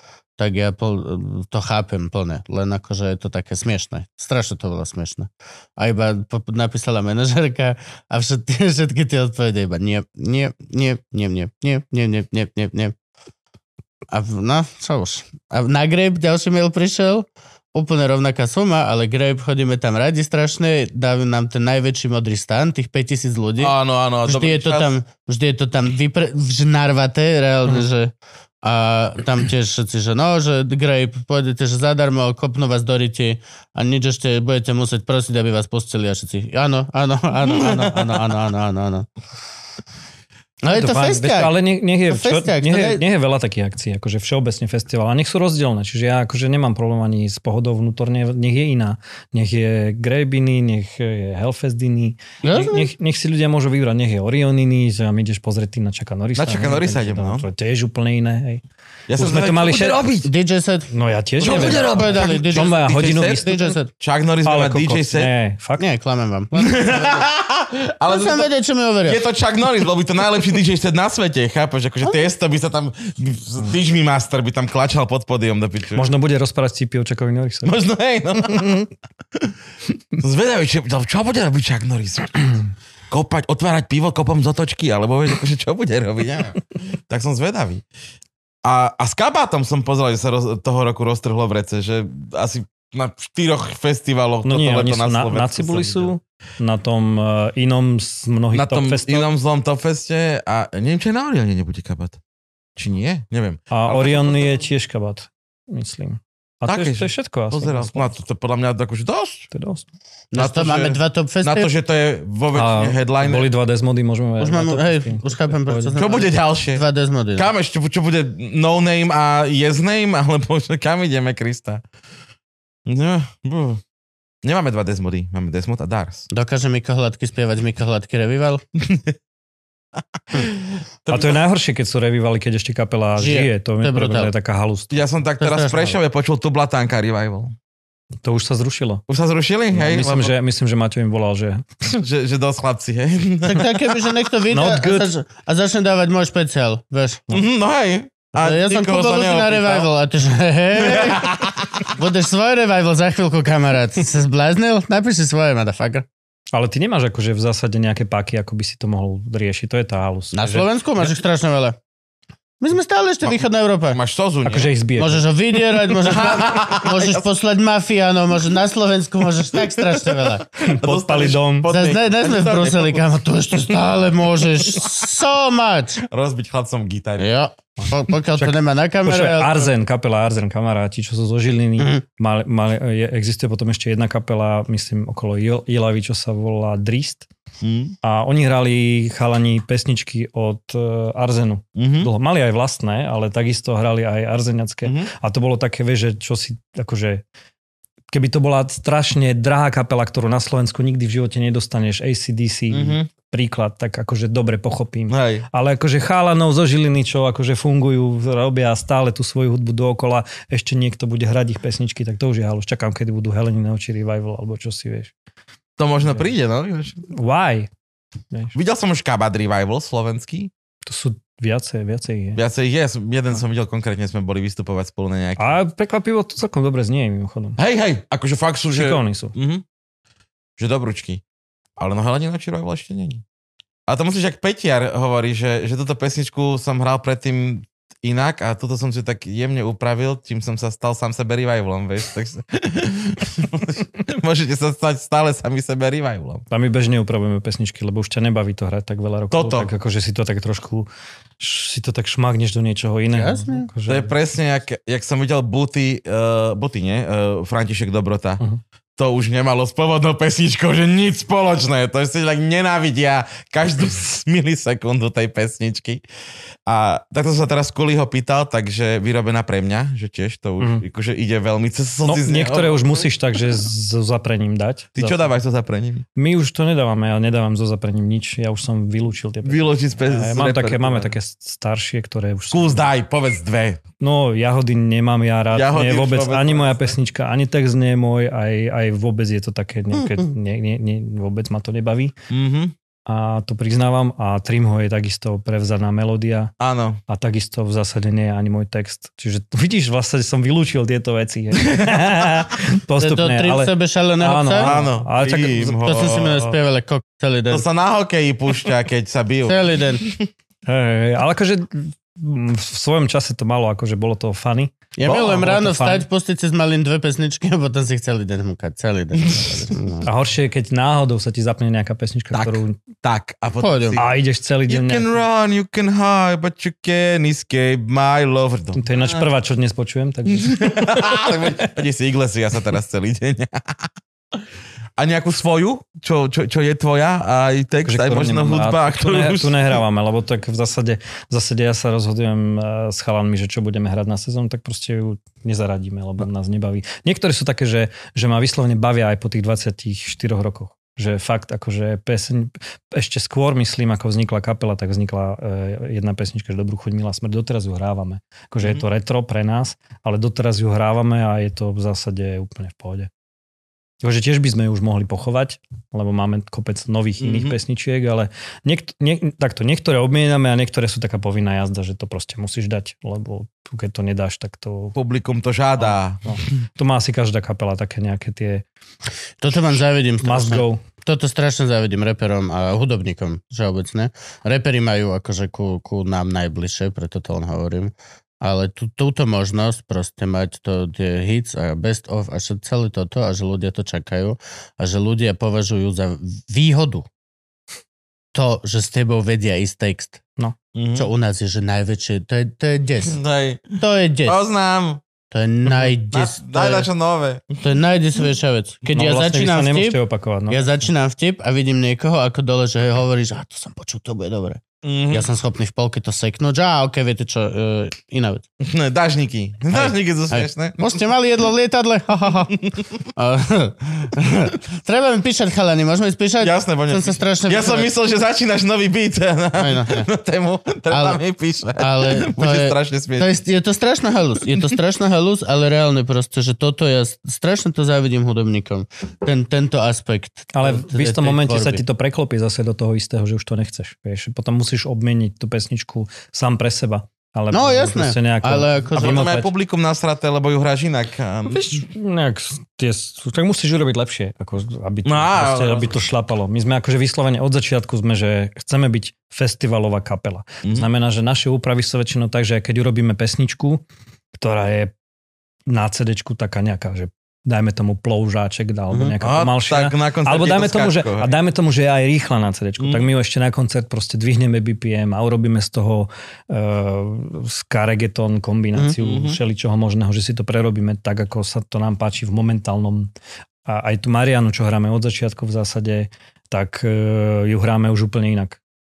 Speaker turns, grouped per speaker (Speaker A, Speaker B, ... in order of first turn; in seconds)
Speaker A: 0.4-12.9, 14.1-39.1, 40.6-41.5, 42.1-43.0, 52.4-52.9, 60.2-63.9, 65.8-67.3, 68.1-69.2, 110.3-111.7, 114.4-117.5, 126.3-128.6, 133.2-134.3, 135.4-136.0, 143.4-147.2, 148.4-151.4, 151.9-156.1, 160.3-161.8, 162.6-164.0, 165.0-170.4, 171.7-176.0, 177.2-179.7, 253.1-253.7, 303.0-304.7, 305.8-307.7, 309.5-310.0, 315.0-320.1, 323.6-324.0, 379.4-397.1, 398.3-400.2, 400.9-403.2, 403.8-404.4, 405.3-406.9, 407.6-410.0, 410.5-418.4, 419.7-422.6, 423.1-427.9, 429.6-430.1, 430.9-431.2, 431.8-441.8, 447.5-449.3
Speaker B: 23.6-24.9, 37.5-38.3, 56.4-57.5, 59.1-60.3, 61.4-65.3, 66.5-68.5, 69.0-76.1, 77.7-79.5, 80.2-82.4, 83.1-87.8, 88.6-96.1, 98.5-102.2, 102.8-104.6, 106.7-109.5, 110.4-113.5, 116.0-116.8, 117.4-121.8, 122.9-123.8, 124.4-126.3, 128.8-129.2, 130.3-131.4, 134.9-137.6, 139.1-140.3, 141.9-143.8, 147.3-149.9, 150.8-151.9, 163.9-164.7, 166.0-167.2, 169.8-173.0, 176.1-177.3, 187.6-188.0, 191.8-192.1, 194.8-195.1, 202.7-203.1, 205.1-205.5, 215.8-217.0, 218.5-220.5, 222.4-225.6, 227.6-229.6, 230.6-231.2, 231.8-233.2, 233.9-246.4, 249.3-249.7, 253.9-258.4, 259.0-266.0, 266.7-273.1, 275.0-276.1, 279.4-281.1, 282.5-283.8, 285.5-286.9, 292.3-292.7, 296.6-297.0, 301.6-302.1, 304.6-306.4, 307.5-310.3, 315.1-315.4, 322.3-324.1, 324.7-329.3, 330.3-333.9, 335.0-339.8, 367.2-367.6, 375.0-376.4, 400.8-401.1, 403.1-405.0, 406.1-407.6, 414.8-415.3, 418.6-421.0, 426.4-433.3, 448.9-451.9, 455.1-456.0, 469.2-471.3, 472.8-473.1, 479.0-479.4
Speaker C: 40.7-58.6, 59.1-60.0, 60.9-63.7, 64.5-65.8, 76.0-77.8, 94.5-99.3, 103.7-108.2, 109.5-109.8, 112.5-115.9, 131.1-135.0, 138.2-139.0, 139.7-141.7, 144.5-145.1, 156.5-160.7, 164.5-165.3, 170.6-171.7, 178.4-187.3, 188.0-197.2, 198.1-215.1, 217.1-217.7, 220.9-222.4, 225.4-227.6, 228.7-229.3, 246.5-250.9, 251.4-254.1, 272.0-275.3, 276.2-282.9, 284.0-292.1, 293.1-296.5, 297.1-306.5, 310.7-316.1, 320.0-322.8, 324.0-325.1, 328.7-331.6, 337.9-363.1, 364.0-375.0, 375.8-378.6, 380.2-380.8, 408.9-410.8, 440.5-449.5, 451.5-463.8, 464.4-464.9, 465.7-483.1, 483.7-488.6